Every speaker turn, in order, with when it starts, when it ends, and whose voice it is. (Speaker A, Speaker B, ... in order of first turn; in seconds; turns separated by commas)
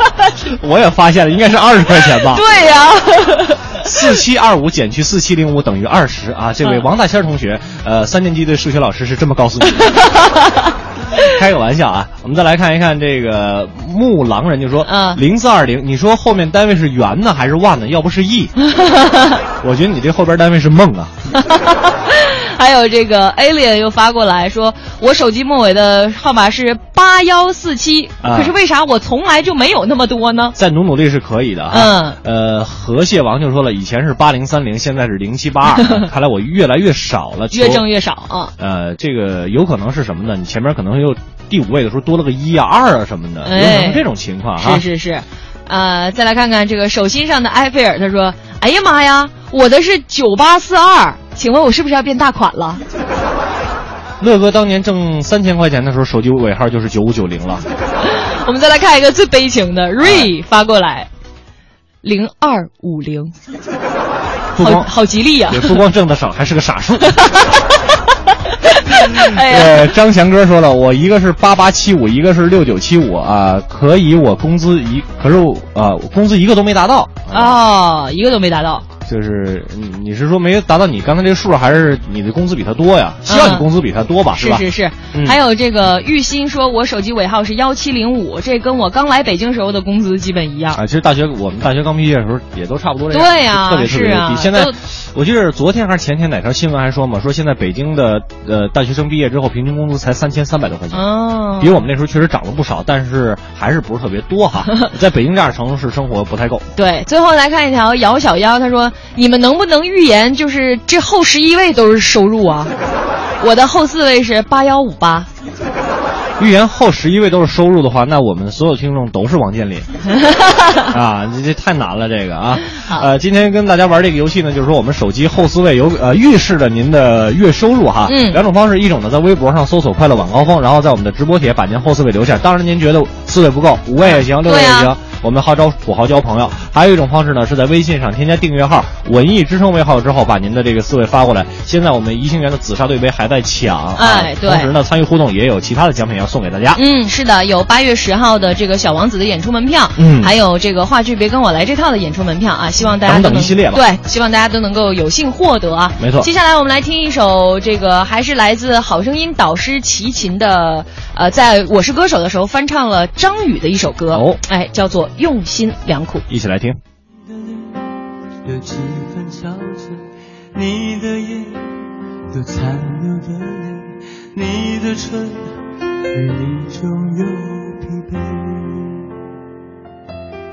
Speaker A: 0.5-2.4, Speaker B: 2.3-3.6, Speaker A: 3.8-10.0, Speaker B: 10.0-10.3, Speaker A: 11.2-18.5, Speaker B: 14.8-15.2, Speaker B: 18.7-19.4, Speaker A: 19.6-21.1, Speaker B: 21.4-30.5, Speaker A: 28.2-28.5, Speaker A: 30.5-37.9, Speaker B: 31.7-32.2, Speaker B: 37.5-38.5, Speaker A: 38.6-44.8, Speaker B: 43.4-44.0, Speaker B: 44.6-52.8, Speaker A: 54.2-57.6, Speaker B: 58.1-61.1, Speaker A: 60.0-60.3, Speaker B: 62.0-63.3, Speaker A: 64.5-64.9, Speaker B: 64.6-65.8, Speaker A: 65.5-67.1, Speaker B: 68.7-69.8, Speaker A: 69.1-77.6, Speaker B: 77.3-78.8, Speaker A: 79.0-85.4, Speaker B: 83.2-83.7, Speaker B: 84.3-90.8, Speaker A: 90.7-101.0, Speaker B: 93.1-94.7, Speaker B: 100.9-101.8, Speaker A: 101.6-106.6, Speaker B: 106.8-112.7, Speaker B: 113.4-115.3, Speaker A: 116.4-119.9, Speaker B: 120.2-120.8, Speaker A: 120.9-146.8, Speaker B: 122.8-123.1, Speaker B: 128.1-128.4, Speaker B: 134.0-134.9, Speaker B: 144.0-144.7, Speaker B: 146.8-166.2, Speaker A: 149.9-150.3, Speaker A: 153.0-153.8, Speaker A: 156.0-156.3, Speaker A: 164.1-164.4, Speaker A: 166.3-166.8, Speaker C: 167.2-167.8, Speaker C: 168.4-171.8, Speaker C: 172.3-175.5, Speaker C: 176.1-179.1